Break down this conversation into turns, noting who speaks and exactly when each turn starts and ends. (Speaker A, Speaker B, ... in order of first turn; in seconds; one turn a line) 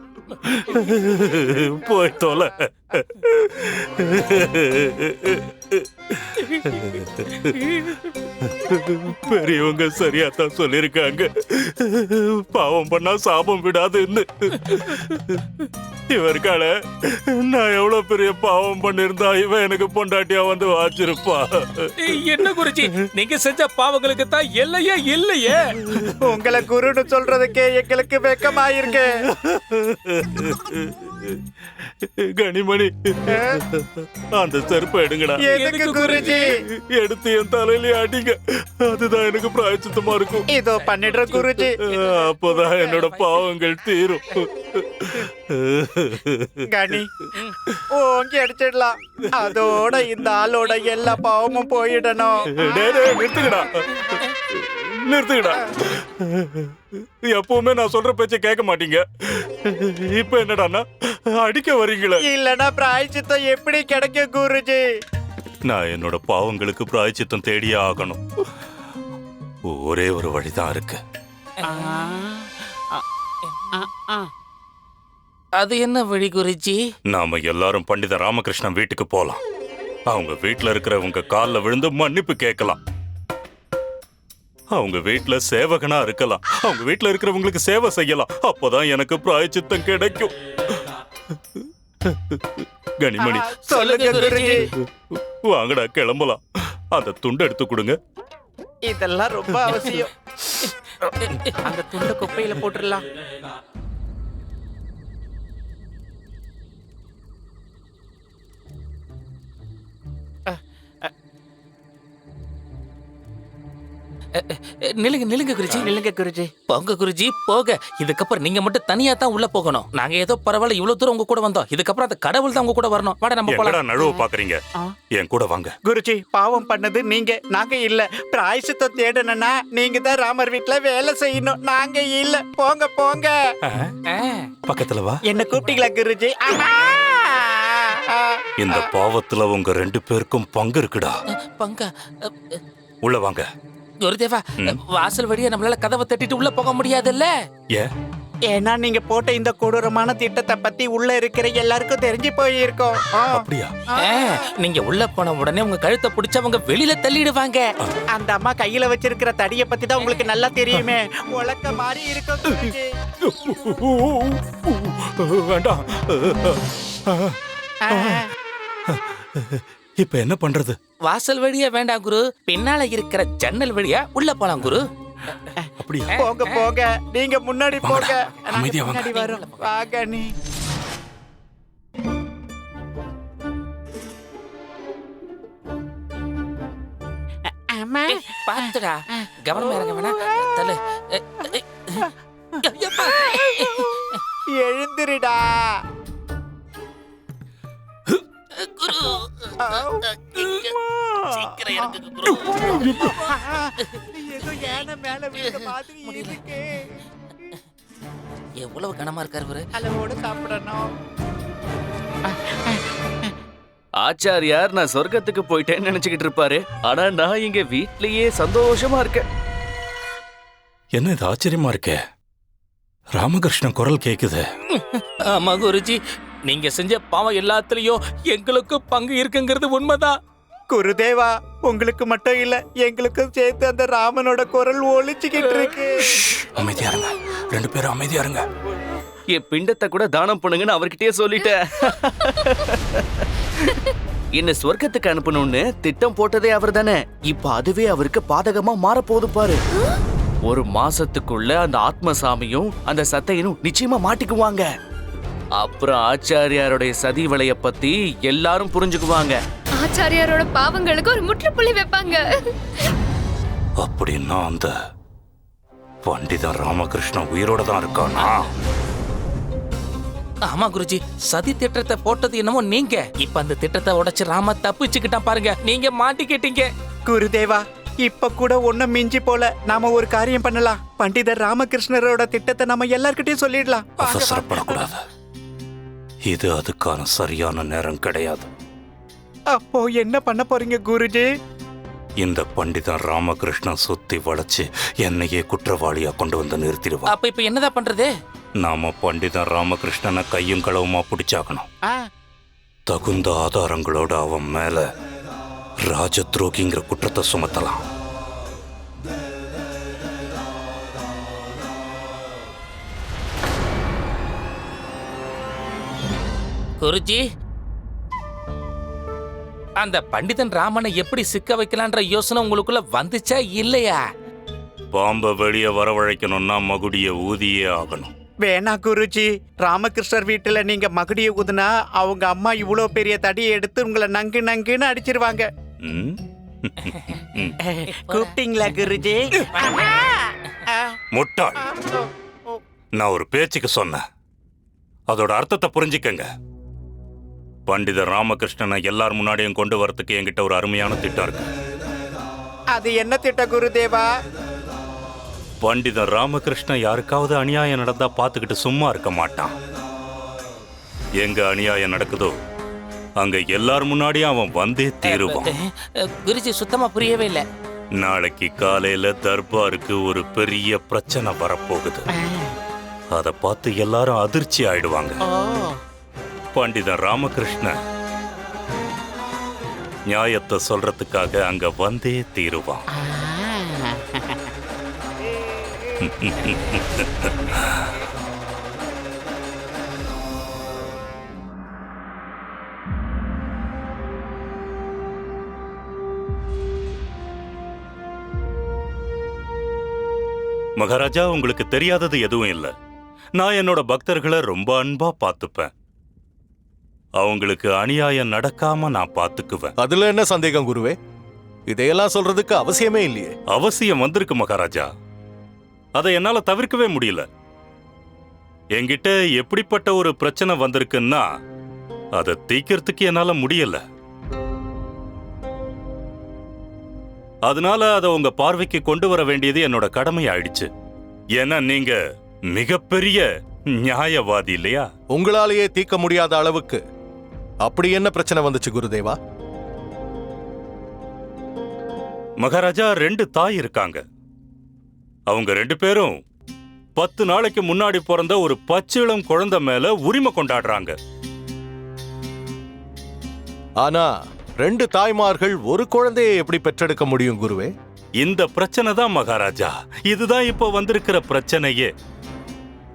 Speaker A: 0.4-23.1
Speaker B: 22.0-25.7
Speaker A: 25.8-26.3
Speaker C: 26.2-29.1
Speaker A: 29.3-35.5
Speaker C: 33.3-33.6
Speaker C: 35.4-36.5
Speaker B: 35.5-36.3
Speaker A: 36.2-40.5
Speaker C: 40.5-41.7
Speaker B: 40.7-43.2
Speaker A: 41.6-46.7
Speaker C: 46.7-47.1
Speaker C: 47.9-52.4
Speaker A: 52.5-62.2
Speaker C: 62.3-64.9
Speaker A: 65.7-68.2
Speaker A: 69.7-71.0
Speaker C: 71.7-73.0
Speaker C: 73.7-74.3
Speaker B: 75.6-76.8
Speaker A: 77.1-79.4
Speaker A: 80.1-82.8
Speaker A: 84.7-90.8
Speaker A: 91.3-93.5
Speaker C: 93.2-94.7
Speaker B: 93.8-94.5
Speaker A: 94.8-98.0
Speaker C: 98.8-100.1
Speaker C: 101.6-103.0
Speaker C: 110.5-111.1
Speaker B: 114.4-115.9
Speaker C: 115.8-116.5
Speaker B: 116.7-123.8
Speaker A: 123.5-124.6
Speaker A: 125.2-125.7
Speaker C: 125.9-133.4
Speaker A: 133.7-133.9
Speaker B: 134.1-134.5
Speaker A: 134.7-135.2
Speaker C: 135.3-138.9
Speaker A: 138.6-141.2
Speaker B: 141.4-142.6
Speaker A: 143.0-143.5
Speaker B: 144.0-147.3
Speaker C: 148.5-154.5
Speaker A: 153.3-153.8
Speaker B: 154.0-157.7
Speaker C: 158.1-163.0
Speaker A: 163.3-167.4
Speaker C: 167.8-168.3
Speaker A: 167.9-168.2
Speaker A: 168.9-170.8
Speaker B: 171.1-174.8
Speaker A: 175.8-176.2
Speaker B: 176.1-176.7
Speaker C: 176.2-180.3
Speaker A: 178.6-179.0
Speaker B: 179.0-179.7
Speaker C: 187.5-188.7
Speaker B: 188.1-192.1
Speaker B: 192.6-194.2
Speaker C: 193.0-193.9
Speaker C: 194.5-195.8
Speaker B: 198.5-199.7
Speaker C: 199.6-207.0
Speaker B: 200.3-200.7
Speaker B: 201.2-203.2
Speaker B: 205.5-206.4
Speaker B: 208.6-209.7
Speaker C: 209.8-210.9
Speaker C: 212.3-213.3
Speaker D: 214.0-219.3
Speaker A: 220.9-222.0
Speaker A: 223.1-224.4
Speaker B: 224.8-230.2
Speaker C: 230.7-236.2
Speaker A: 236.2-238.5
Speaker D: 239.3-243.2
Speaker D: 244.3-249.6
Speaker D: 250.4-254.7
Speaker D: 255.6-259.4
Speaker E: 259.8-262.4
Speaker A: 263.8-264.7
Speaker A: 266.0-268.5
Speaker B: 270.4-276.7
Speaker C: 277.1-284.8
Speaker A: 284.0-285.0
Speaker A: 286.3-288.5
Speaker C: 289.5-291.3
Speaker A: 292.2-297.1
Speaker B: 297.1-298.1
Speaker A: 298.6-301.7
Speaker A: 302.9-304.9
Speaker A: 305.8-307.8
Speaker B: 316.8-317.2
Speaker B: 319.8-324.0
Speaker A: 324.9-328.1
Speaker C: 328.4-335.5
Speaker A: 335.8-337.6
Speaker C: 337.7-340.9
Speaker B: 338.0-338.3
Speaker A: 341.1-341.6
Speaker C: 341.6-342.6
Speaker A: 343.0-344.0
Speaker A: 345.1-346.3
Speaker A: 347.7-351.4
Speaker C: 352.7-354.1
Speaker A: 355.6-359.6
Speaker A: 361.2-362.3
Speaker A: 363.2-365.5
Speaker B: 365.0-367.4
Speaker A: 368.0-372.1
Speaker A: 373.1-375.2
Speaker C: 375.4-375.8
Speaker A: 376.5-377.8
Speaker A: 380.1-382.8
Speaker A: 386.0-387.9
Speaker A: 400.8-402.7
Speaker A: 403.4-405.7
Speaker A: 407.2-409.7
Speaker F: 409.8-411.0
Speaker F: 411.7-413.3
Speaker A: 413.5-414.9
Speaker A: 416.0-417.3
Speaker A: 418.8-421.2
Speaker A: 422.2-423.8
Speaker A: 427.5-430.7
Speaker A: 431.4-432.0
Speaker A: 432.5-433.2
Speaker A: 433.8-434.9
Speaker F: 435.1-436.8
Speaker F: 437.6-439.2
Speaker A: 442.4-444.0
Speaker A: 445.3-446.1
Speaker A: 447.0-451.0
Speaker F: 453.8-454.1
Speaker F: 454.6-457.7
Speaker A: 458.2-461.9